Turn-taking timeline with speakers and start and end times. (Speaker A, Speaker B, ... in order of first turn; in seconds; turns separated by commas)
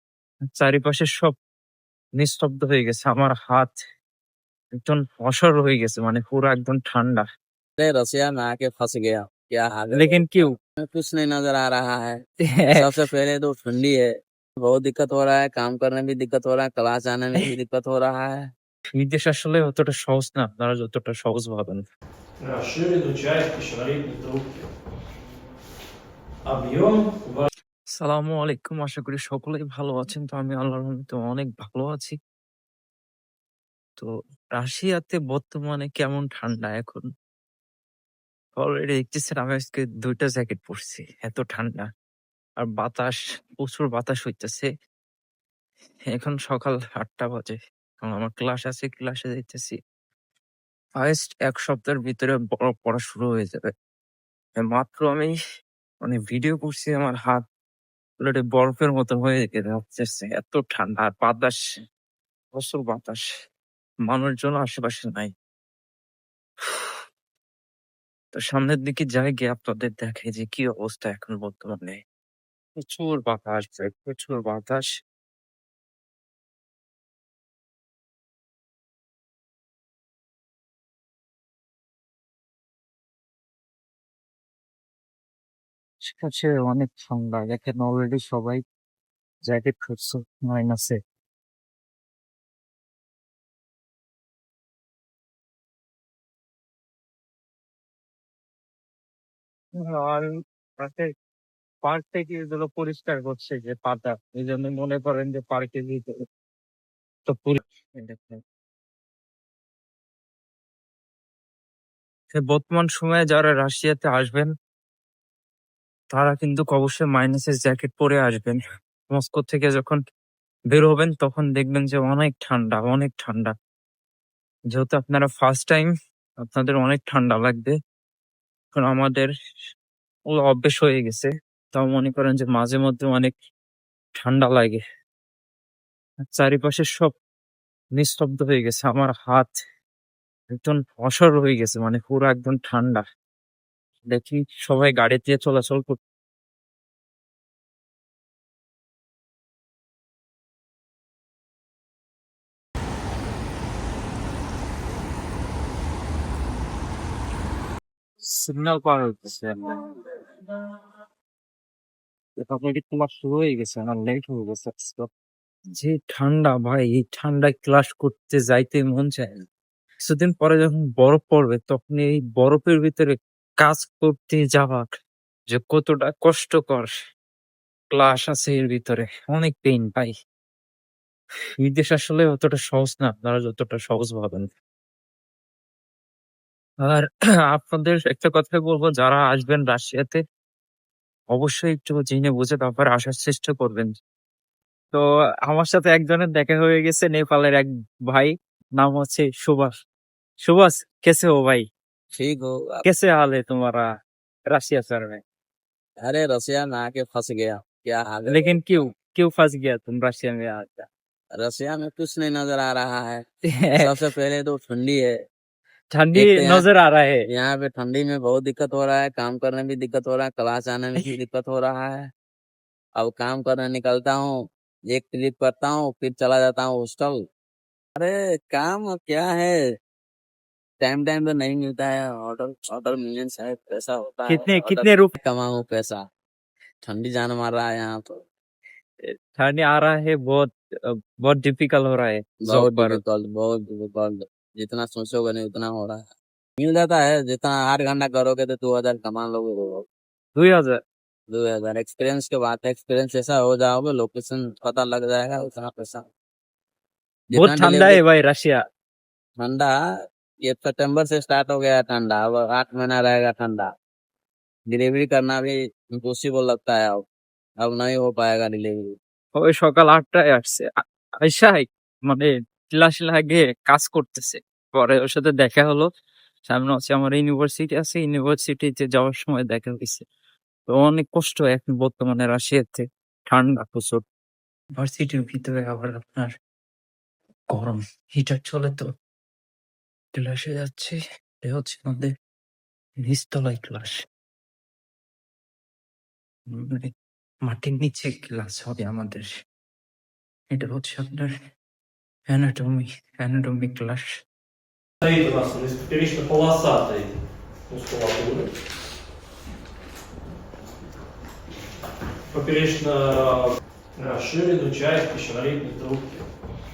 Speaker A: 0.5-1.4, Speaker A: 2.2-3.7, Speaker A: 4.8-7.2, Speaker B: 7.8-12.2, Speaker A: 9.9-10.5, Speaker A: 12.5-12.9, Speaker B: 12.8-14.1, Speaker B: 14.6-18.4, Speaker A: 19.0-21.8, Speaker C: 22.4-24.7, Speaker C: 26.5-27.5, Speaker A: 28.0-32.2, Speaker A: 34.0-37.1, Speaker A: 38.6-41.9, Speaker A: 42.6-44.7, Speaker A: 46.1-49.8, Speaker A: 51.0-53.7, Speaker A: 54.6-55.3, Speaker A: 56.0-57.4, Speaker A: 58.2-61.6, Speaker A: 62.5-63.2, Speaker A: 64.1-65.3, Speaker A: 68.3-72.0, Speaker A: 72.8-74.9, Speaker A: 86.0-88.6, Speaker A: 89.5-91.0, Speaker A: 99.8-100.2, Speaker A: 100.8-101.1, Speaker A: 101.8-106.1, Speaker A: 107.3-108.4, Speaker A: 112.3-114.5, Speaker A: 116.1-118.6, Speaker A: 119.1-120.0, Speaker A: 120.7-123.5, Speaker A: 124.7-127.8, Speaker A: 128.7-129.3, Speaker A: 130.3-133.3, Speaker A: 134.2-134.8, Speaker A: 136.3-137.1, Speaker A: 138.0-139.5, Speaker A: 140.5-143.0, Speaker A: 144.1-146.0, Speaker A: 158.2-160.6, Speaker A: 162.4-165.1, Speaker A: 165.8-169.3, Speaker A: 170.0-174.9, Speaker A: 175.5-176.9, Speaker A: 177.9-180.1, Speaker A: 181.6-184.5, Speaker A: 186.8-190.2, Speaker A: 191.3-193.9, Speaker A: 194.9-199.7, Speaker A: 200.4-201.6, Speaker B: 202.1-202.8, Speaker A: 202.8-203.8, Speaker A: 204.5-205.2, Speaker B: 206.0-208.5, Speaker A: 208.3-210.9, Speaker B: 211.4-213.2, Speaker A: 213.6-213.9, Speaker B: 213.8-215.1, Speaker A: 215.9-217.2, Speaker B: 216.2-216.6, Speaker B: 217.3-222.1, Speaker B: 223.0-224.4, Speaker B: 224.9-227.2, Speaker B: 228.0-229.6, Speaker B: 230.8-236.0, Speaker A: 234.3-235.1, Speaker B: 236.8-238.1, Speaker A: 239.1-243.0, Speaker B: 242.4-246.0, Speaker B: 246.6-249.8, Speaker A: 250.4-250.8, Speaker B: 251.3-256.0, Speaker B: 257.3-258.0, Speaker A: 257.4-258.6, Speaker B: 259.4-259.7, Speaker B: 260.5-263.7, Speaker B: 264.7-267.0, Speaker B: 267.6-268.9, Speaker A: 269.4-270.7, Speaker A: 271.2-275.9, Speaker A: 276.5-280.1, Speaker A: 280.7-284.0, Speaker A: 284.8-286.3, Speaker A: 287.5-288.9, Speaker A: 290.1-292.1, Speaker A: 293.1-294.0, Speaker A: 296.5-296.9, Speaker A: 297.5-299.3, Speaker A: 300.5-301.3, Speaker A: 302.3-304.1, Speaker C: 305.0-307.2, Speaker C: 307.7-308.5, Speaker C: 312.3-316.3